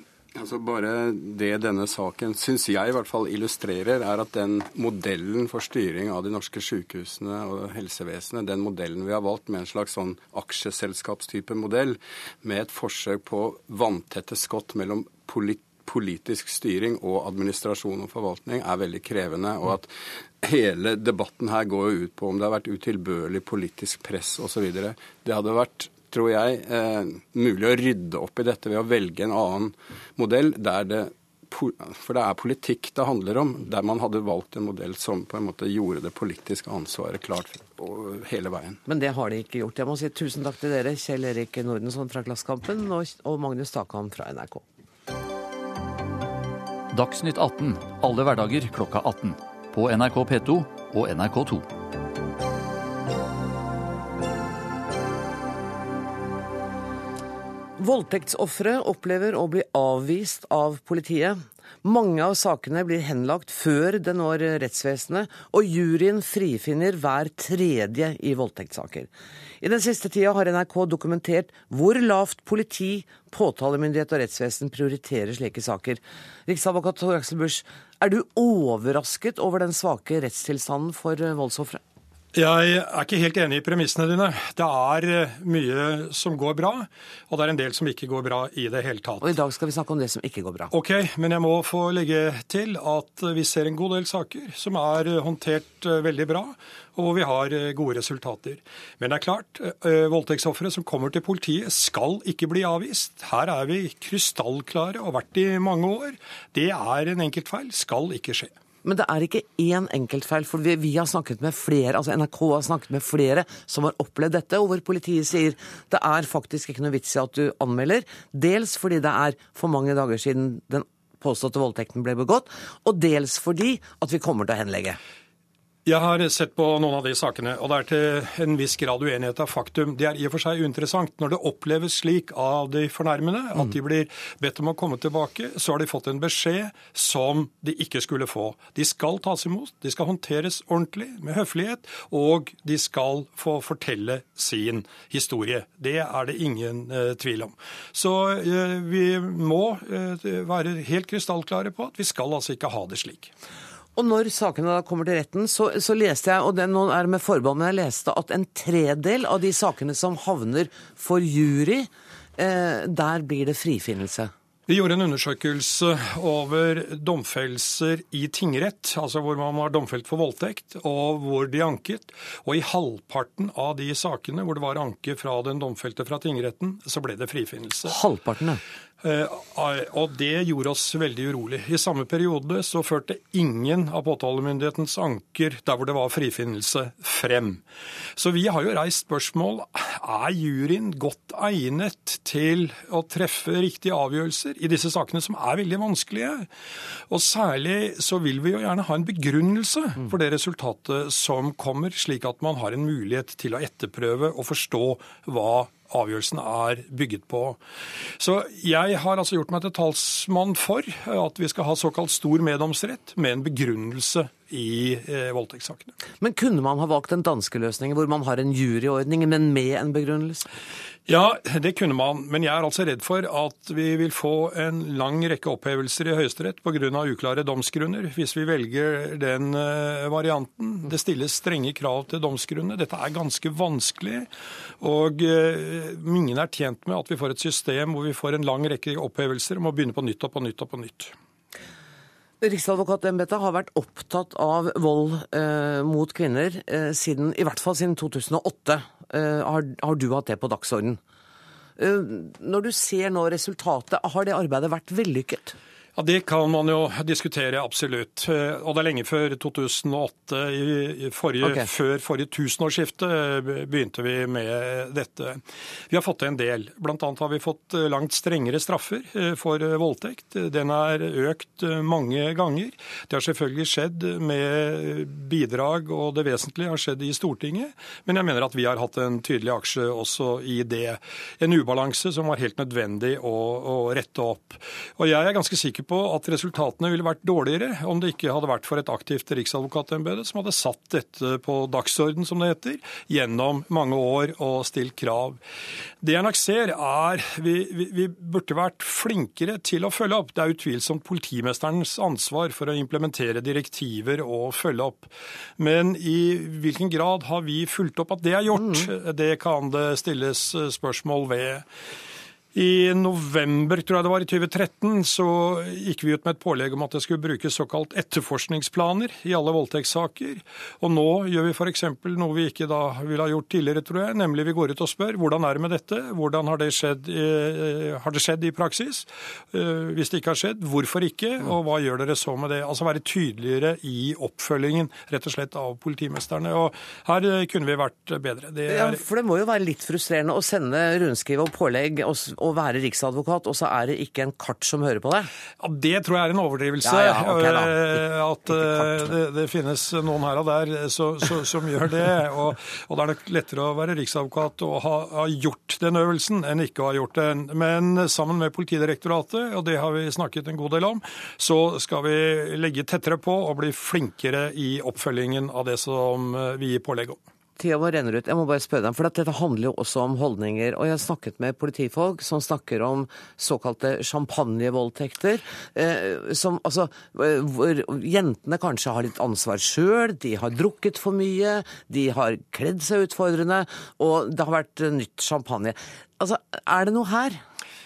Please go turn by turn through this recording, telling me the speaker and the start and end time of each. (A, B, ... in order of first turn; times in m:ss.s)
0:00.3-0:38.8 A
0:38.8-0:44.6 B
0:46.9-0:51.6 C
0:57.8-1:09.1 B
1:09.6-1:21.8 B
1:22.3-1:29.3 D
1:29.2-1:30.7 B
1:30.7-1:48.5 D
1:48.8-2:05.0 B
2:05.8-2:33.3 D
2:34.0-2:44.3 B
2:44.7-2:58.0 D
2:57.8-2:58.6 B
2:59.0-3:07.6 D
3:08.2-3:16.5 D
3:17.1-3:27.6 D
3:28.2-3:35.9 D
3:36.2-3:40.4 B
3:41.1-3:54.3 D
3:54.8-4:01.1 D
4:02.4-4:11.0 B
4:11.8-4:15.6 B
4:16.0-4:55.4 D
4:21.4-4:21.7 B
4:56.0-5:11.6 D
5:08.5-5:08.9 B
5:12.5-5:39.0 D
5:38.7-5:45.3 B
5:45.6-6:07.2 D
5:46.8-5:47.8 B
6:07.6-6:27.4 B